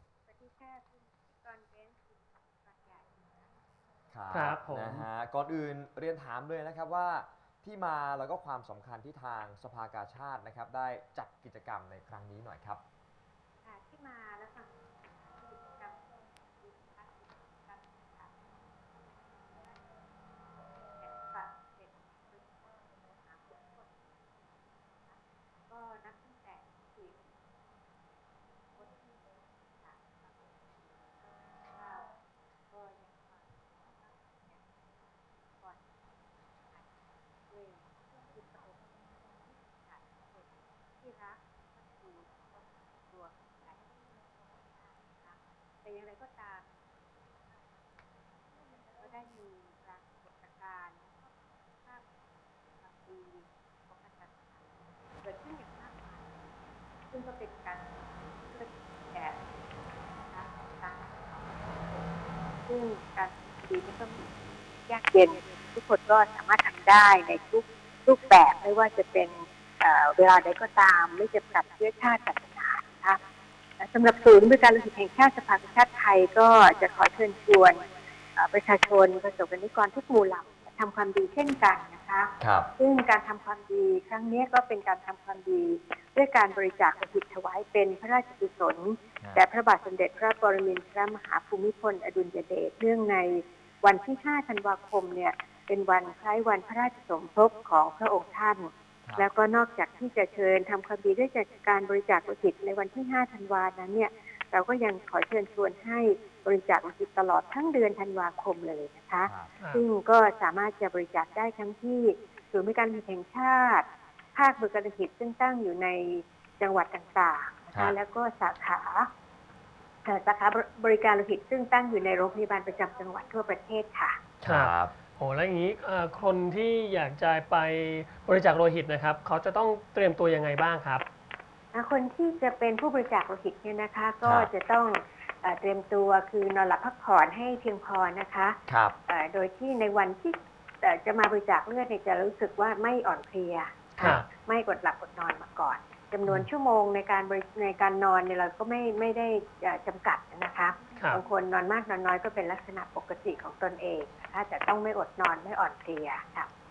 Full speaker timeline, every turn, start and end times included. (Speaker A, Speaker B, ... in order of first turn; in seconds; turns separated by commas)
Speaker A: 0.3-3.6, Speaker B: 4.1-12.8, Speaker C: 4.3-5.0, Speaker A: 13.6-18.4, Speaker A: 18.9-20.0, Speaker A: 21.0-28.1, Speaker A: 28.7-35.9, Speaker A: 36.6-73.2, Speaker A: 73.8-119.1, Speaker B: 82.4-82.7, Speaker B: 109.2-109.5, Speaker C: 109.6-109.8, Speaker A: 120.0-124.2, Speaker B: 124.4-124.9, Speaker C: 124.5-131.1, Speaker A: 131.7-156.5, Speaker B: 134.2-134.5, Speaker B: 138.7-139.0, Speaker B: 144.0-144.2, Speaker C: 144.0-144.3, Speaker C: 151.0-151.2